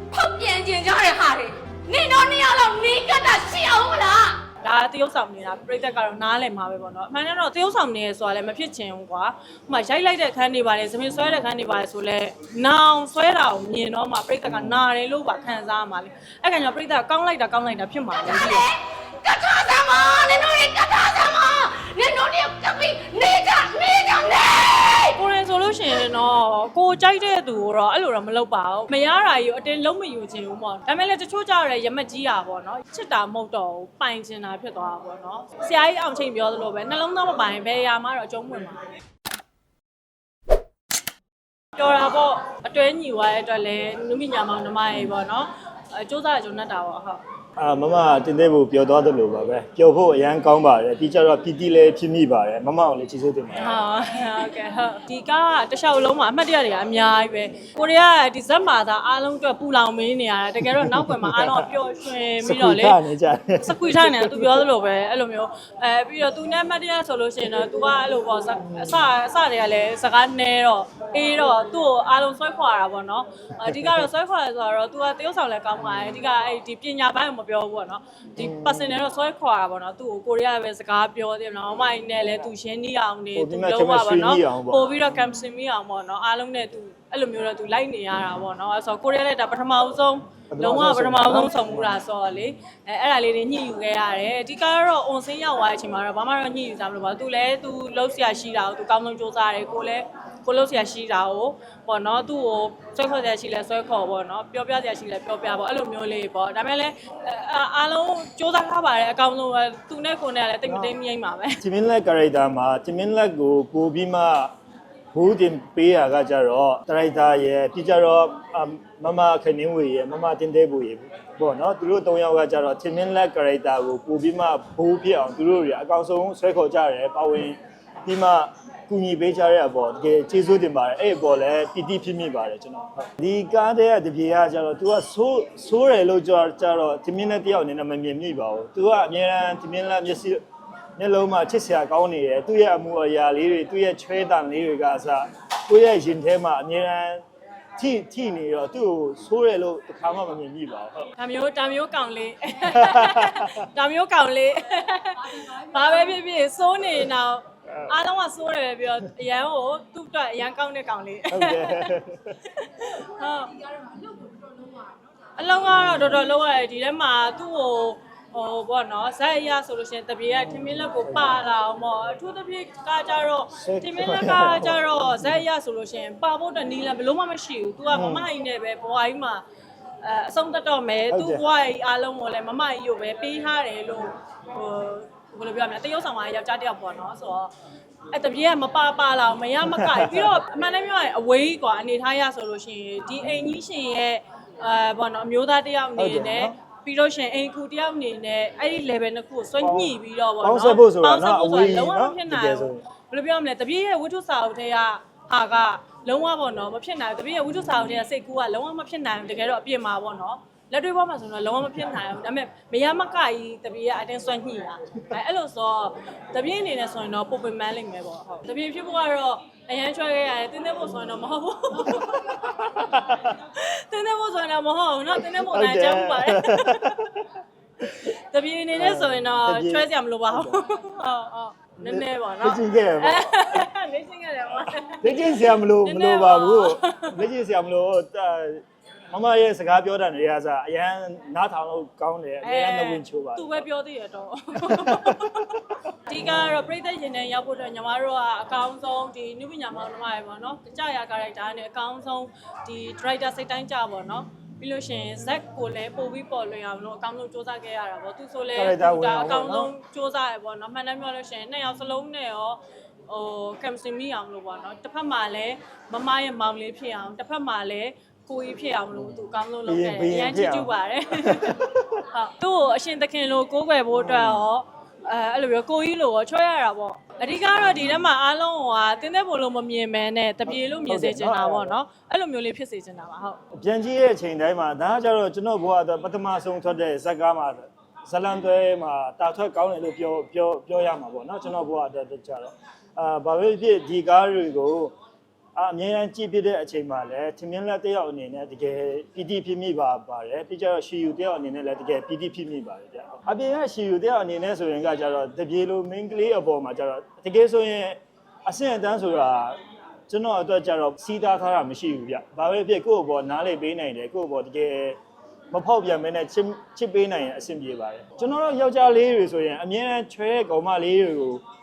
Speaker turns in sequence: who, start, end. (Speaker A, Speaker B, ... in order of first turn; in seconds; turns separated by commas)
Speaker A: 0.1-4.4, Speaker B: 4.6-18.7, Speaker C: 11.1-11.5, Speaker C: 14.4-14.8, Speaker A: 18.2-25.2, Speaker B: 25.1-38.8, Speaker B: 41.8-47.2, Speaker C: 47.6-53.7, Speaker B: 53.5-63.0, Speaker C: 60.6-61.7, Speaker C: 62.4-64.7, Speaker B: 63.6-111.6, Speaker C: 68.6-69.0, Speaker C: 73.6-74.1, Speaker C: 75.8-76.2, Speaker C: 78.3-79.1, Speaker C: 83.3-85.1, Speaker C: 90.5-92.0, Speaker C: 110.6-110.9, Speaker C: 111.6-114.5, Speaker C: 115.1-140.4, Speaker C: 141.0-147.2, Speaker C: 147.8-151.0, Speaker B: 151.2-163.8, Speaker C: 152.6-153.7, Speaker C: 157.7-157.9, Speaker C: 161.3-162.3, Speaker B: 165.3-179.4, Speaker C: 165.7-166.2, Speaker C: 170.3-171.4, Speaker C: 173.6-175.4, Speaker C: 177.9-178.3, Speaker B: 180.0-187.5, Speaker C: 181.1-181.4, Speaker B: 188.1-227.1, Speaker C: 189.6-190.4, Speaker C: 193.2-193.6, Speaker C: 195.9-196.5, Speaker C: 199.6-202.8, Speaker C: 207.5-207.9, Speaker C: 221.8-223.3, Speaker C: 225.2-228.1, Speaker B: 228.0-237.2, Speaker C: 228.7-230.7, Speaker C: 231.8-233.7, Speaker C: 234.7-243.7, Speaker B: 242.4-283.4, Speaker C: 244.6-246.6, Speaker C: 258.5-259.7, Speaker C: 268.9-272.0, Speaker C: 273.9-274.4, Speaker C: 277.6-278.1, Speaker C: 280.4-281.8, Speaker C: 283.5-294.9, Speaker C: 295.6-309.6, Speaker C: 310.1-315.0, Speaker C: 315.5-321.4